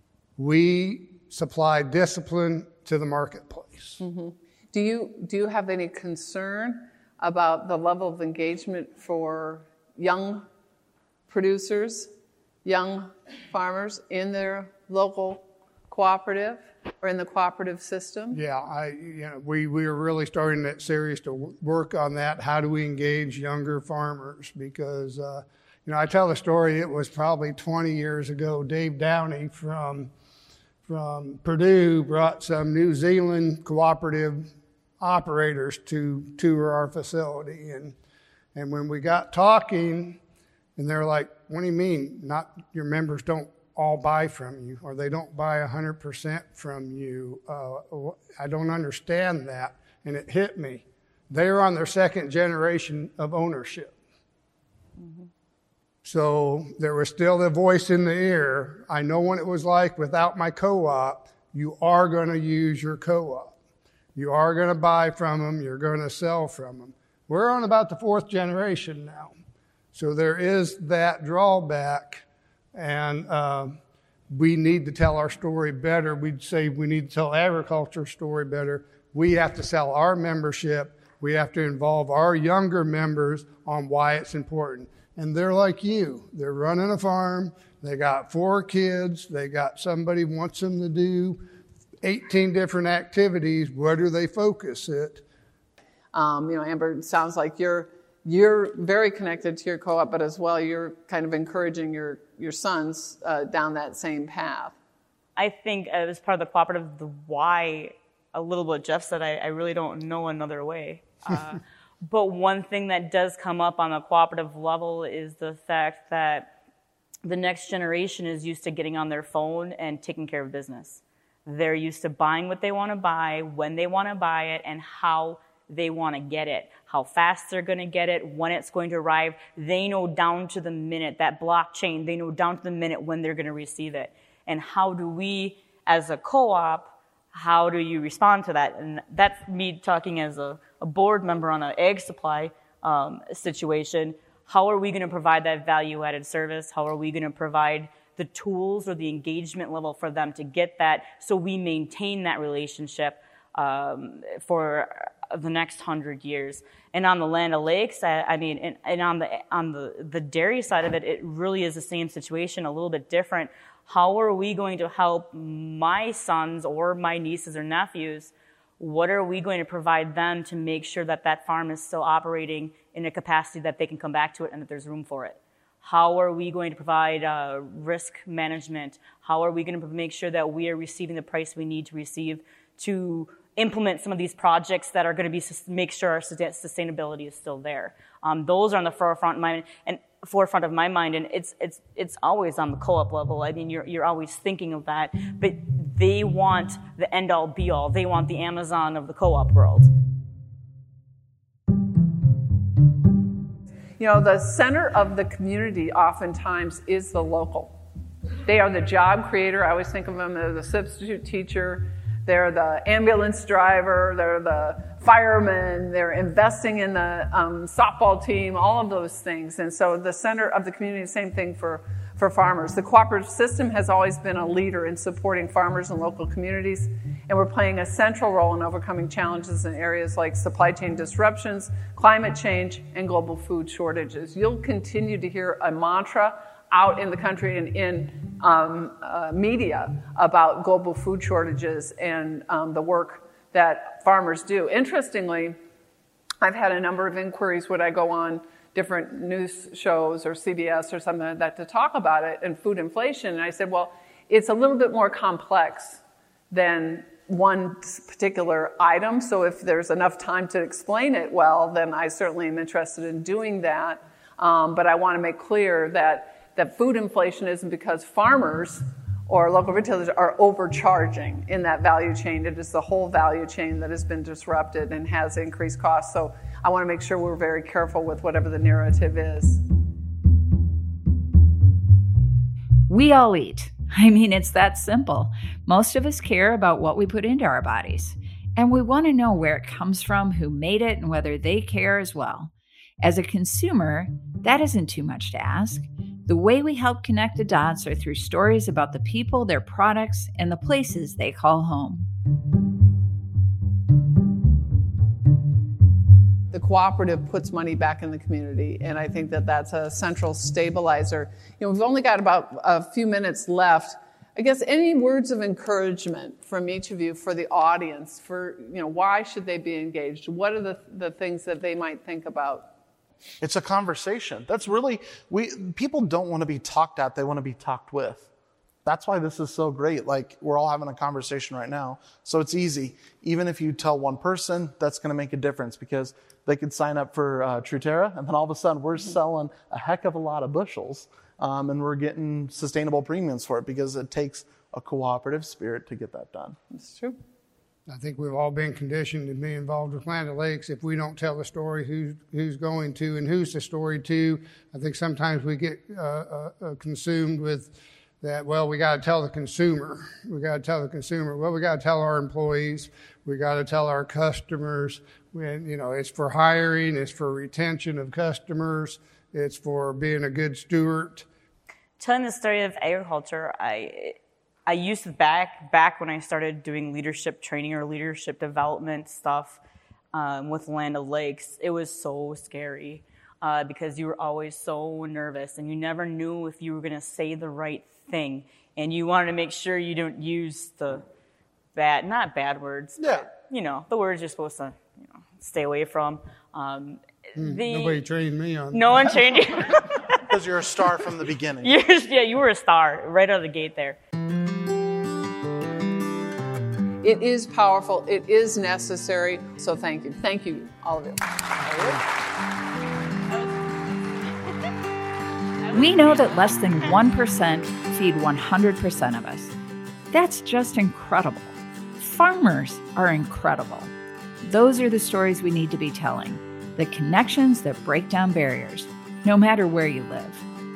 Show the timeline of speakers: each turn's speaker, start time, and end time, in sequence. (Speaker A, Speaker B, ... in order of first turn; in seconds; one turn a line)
Speaker A: 0.4-4.0
Speaker B: 4.0-10.4
Speaker B: 11.3-12.1
Speaker B: 12.7-18.4
Speaker A: 18.3-30.1
Speaker A: 30.9-38.0
Speaker A: 38.5-40.2
Speaker A: 40.8-54.0
Speaker A: 56.0-63.5
Speaker A: 64.2-69.3
Speaker A: 69.9-73.8
Speaker A: 74.3-91.4
Speaker A: 92.0-95.2
Speaker B: 96.1-104.8
Speaker C: 105.4-116.5
Speaker C: 117.2-199.9
Speaker B: 204.0-207.7
Speaker B: 208.4-245.6
Speaker B: 246.4-279.6
Speaker D: 282.9-302.1
Speaker B: 306.5-322.7
Speaker E: 323.4-328.3
Speaker E: 328.9-346.6
Speaker B: 346.7-347.2
Speaker A: 347.9-371.3
Speaker C: 372.0-374.2
Speaker C: 374.7-379.6
Speaker C: 380.1-391.0
Speaker C: 391.8-398.0
Speaker E: 393.0-393.3
Speaker A: 397.4-399.4
Speaker C: 398.7-400.2
Speaker E: 400.3-401.7
Speaker C: 401.6-404.0
Speaker B: 407.0-412.0
Speaker C: 415.6-416.5
Speaker D: 415.7-419.5
Speaker D: 420.1-423.9
Speaker D: 424.4-430.4